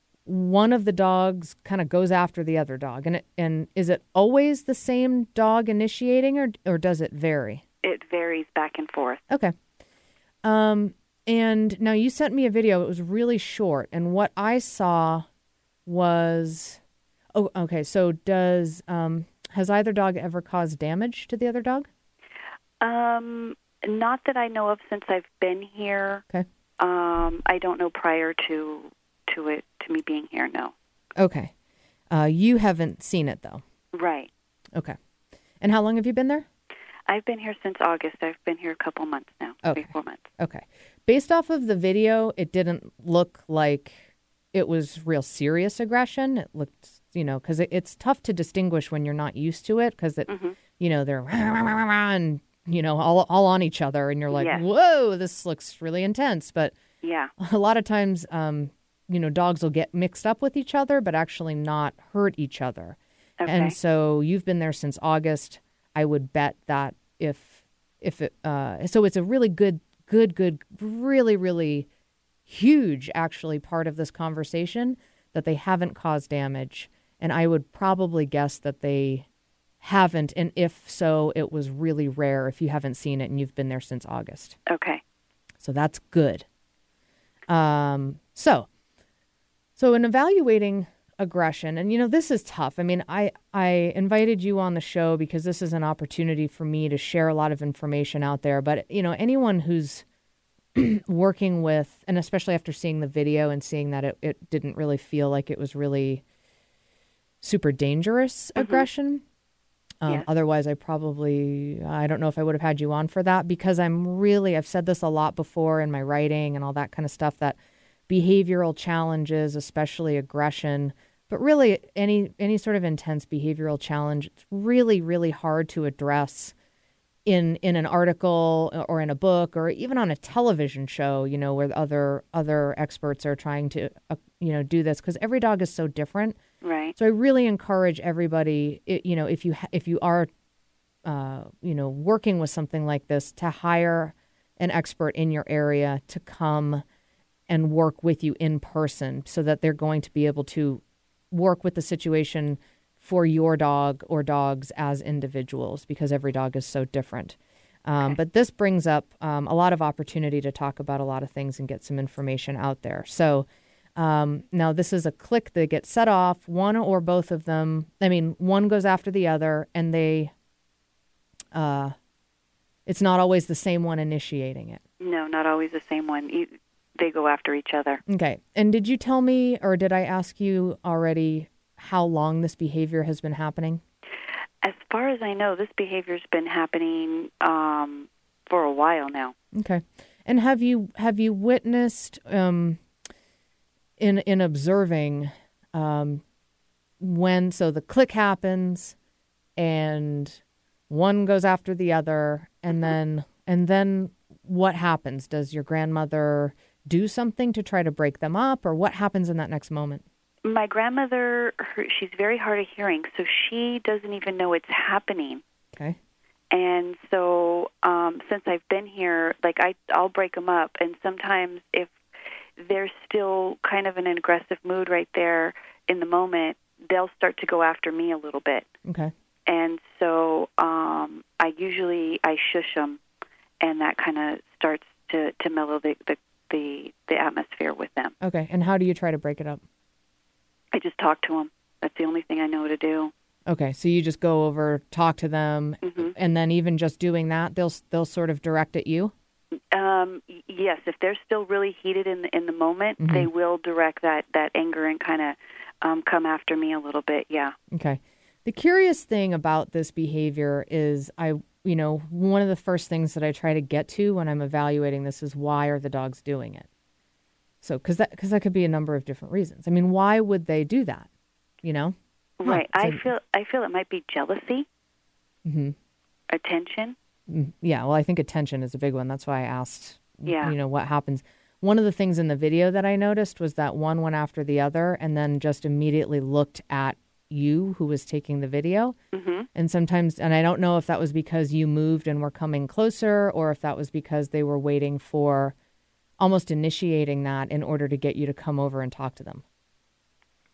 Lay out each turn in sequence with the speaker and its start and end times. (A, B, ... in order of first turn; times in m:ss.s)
0:00.2-0:07.6 A
0:07.8-0:09.2 B
0:10.4-0:15.2 A
0:15.9-0:16.8 A
0:17.4-0:21.9 A
0:22.8-0:26.2 B
0:26.8-0:30.7 B
0:31.2-0:31.5 A
0:32.1-0:33.6 A
0:33.9-0:34.3 B
0:35.6-0:36.5 A
0:37.1-0:40.2 B
0:39.6-0:56.8 A
0:50.3-0:50.6 B
0:54.3-0:54.6 B
0:57.0-0:57.3 B
0:57.4-1:03.0 A
1:03.4-1:03.7 B
1:03.5-1:11.9 A
1:12.5-1:19.2 A
1:19.8-1:24.6 A
1:24.7-1:25.0 B
1:25.6-1:26.5 A
1:27.5-1:28.7 A
1:29.8-1:40.0 A
1:40.8-1:46.2 A
1:47.4-1:49.2 A
1:48.6-1:48.8 B
1:50.0-1:57.6 A
1:58.1-2:06.5 A
2:07.2-2:16.4 A
2:16.6-2:17.0 B
2:17.0-2:20.3 A
2:21.0-2:26.8 A
2:27.5-2:50.3 A
2:51.5-2:52.0 A
2:52.9-2:54.8 A
2:55.0-2:58.0 B
2:58.1-3:03.8 A
3:04.6-3:09.3 B
3:09.6-3:12.8 A
3:14.0-3:16.2 A
3:17.0-3:19.0 A
3:19.6-3:30.0 A
3:30.4-3:35.4 B
3:36.5-3:41.9 B
3:42.6-3:48.7 B
3:48.9-3:49.1 A
3:49.5-3:53.0 B
3:53.6-3:58.1 B
3:58.2-3:59.6 A
4:00.7-4:03.1 B
4:03.5-4:09.1 A
4:05.8-4:06.1 B
4:09.7-4:17.6 B
4:13.0-4:13.3 A
4:17.7-4:26.6 A
4:27.6-4:31.1 A
4:31.6-4:33.1 A
4:32.4-4:34.6 B
4:35.5-4:35.8 A
4:36.3-4:37.0 B
4:37.3-4:49.0 A
4:40.2-4:40.6 B
4:49.1-4:49.5 B
4:49.6-4:55.6 A
4:56.2-4:59.4 A